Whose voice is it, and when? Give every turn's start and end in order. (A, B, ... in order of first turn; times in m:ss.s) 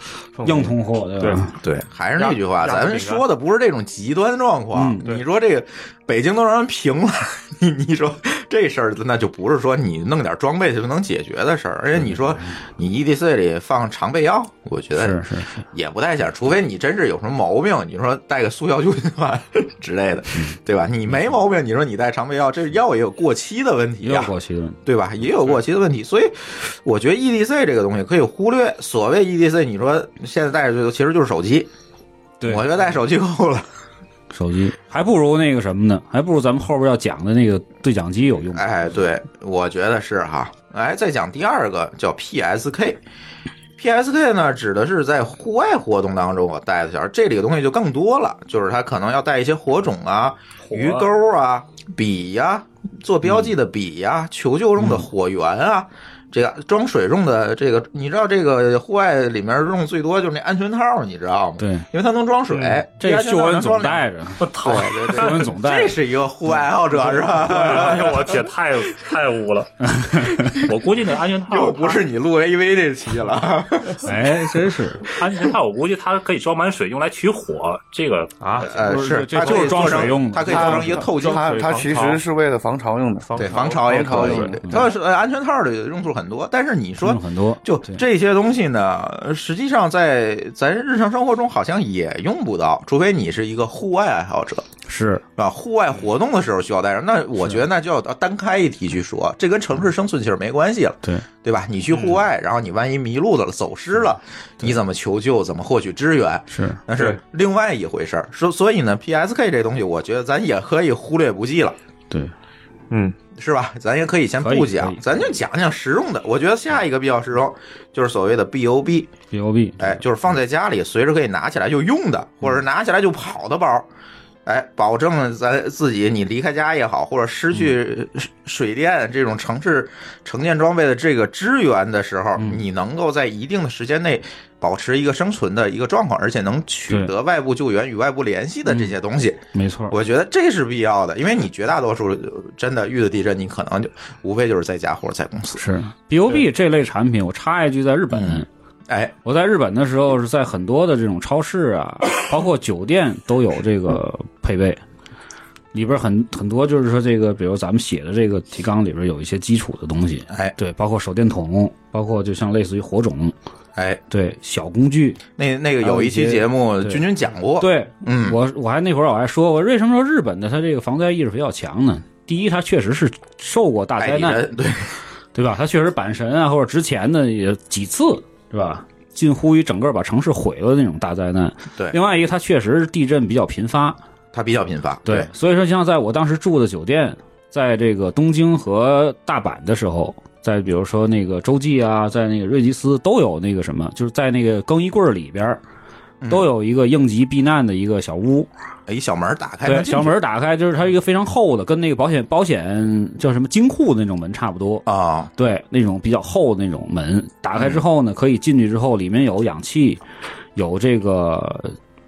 0:00.4-0:01.4 A
0:00.4-0:01.5 B
0:01.6-0:15.2 C
0:02.2-0:03.2 A
0:04.7-0:05.0 B
0:11.9-0:12.5 B
0:15.0-0:15.6 B
0:15.7-0:24.3 C
0:24.0-0:24.8 B
0:24.8-0:31.7 C
0:32.4-0:32.7 B
0:32.4-0:33.6 C
0:34.3-0:38.7 B
0:38.6-0:43.0 C
0:43.8-1:08.4 C
0:50.6-0:51.1 D
0:53.2-0:53.5 B
0:54.8-0:55.0 B
1:01.6-1:01.9 B
1:02.5-1:02.8 A
1:02.9-1:06.0 B
1:04.4-1:05.5 D
1:07.3-1:09.7 D
1:10.0-1:10.3 B
1:10.6-1:12.0 D
1:11.5-1:14.5 C
1:14.0-1:15.0 B
1:15.2-1:18.7 D
1:18.4-1:18.7 A
1:18.7-1:21.4 C
1:18.8-1:21.1 B
1:19.7-1:22.2 A
1:20.4-1:24.6 E
1:23.3-1:24.6 A
1:23.4-1:34.7 C
1:24.1-1:24.9 B
1:27.0-1:28.0 B
1:34.9-1:35.2 B
1:35.4-1:51.8 C
1:41.9-1:42.2 A
1:46.5-1:46.8 B
1:46.9-1:47.2 A
1:52.9-1:53.2 A
1:53.4-1:59.1 C
1:54.4-1:55.0 B
1:59.3-2:00.0 B
1:59.8-2:03.8 C
2:04.4-2:25.6 C
2:12.4-2:12.6 B
2:18.6-2:18.9 B
2:19.5-2:19.9 B
2:25.6-2:28.5 B
2:28.1-2:29.1 C
2:29.2-2:34.8 B
2:35.7-2:43.3 B
2:40.3-2:40.5 C
2:43.8-2:44.0 C
2:44.1-2:45.2 B
2:45.4-2:48.4 C
2:45.8-2:47.0 B
2:47.6-2:54.4 B
2:54.0-2:55.0 C
2:55.3-3:04.0 B
3:04.3-3:05.3 C
3:05.0-3:15.6 B
3:16.2-3:16.5 C
3:16.3-3:18.5 B
3:18.9-3:20.2 C
3:19.6-3:24.8 B
3:24.8-3:25.3 C
3:25.4-3:30.0 B
3:27.6-3:27.8 C
3:30.6-3:31.7 B